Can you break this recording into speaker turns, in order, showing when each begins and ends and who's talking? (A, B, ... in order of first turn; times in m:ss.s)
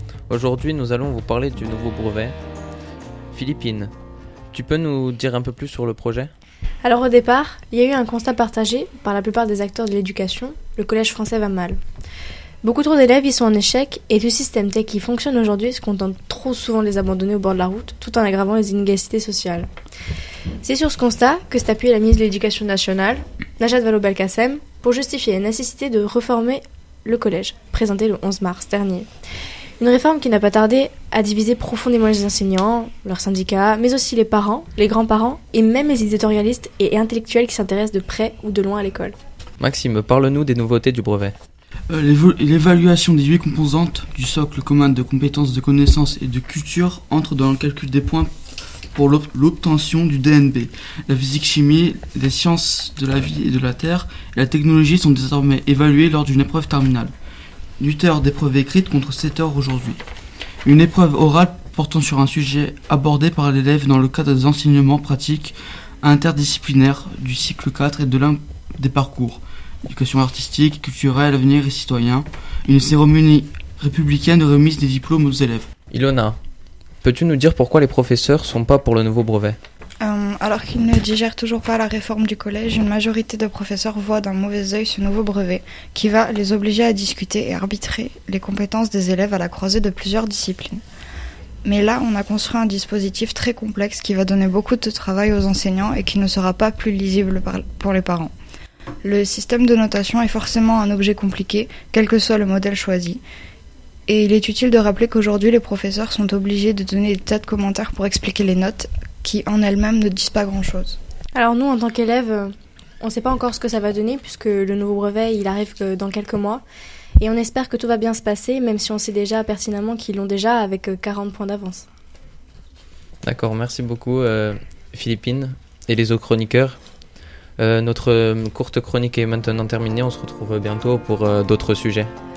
0:00.3-0:02.4 A
0:03.3-0:03.9 A
0:04.5-0:06.3 A
0:06.8-0:11.8 B
0:12.6-0:19.7 B
0:20.6-0:29.1 B
0:29.8-0:39.2 B
0:39.6-0:41.4 A
0:41.9-0:48.3 C
0:48.9-0:57.1 C
0:57.8-1:00.0 C
1:00.6-1:15.7 C
1:15.9-1:16.4 A
1:17.0-1:19.6 A
1:20.0-1:30.8 D
1:31.6-1:38.3 D
1:39.0-1:43.2 D
1:44.1-1:51.0 D
1:51.3-1:56.6 B
1:57.2-2:01.9 B
2:03.2-2:06.8 A
2:07.6-2:12.1 A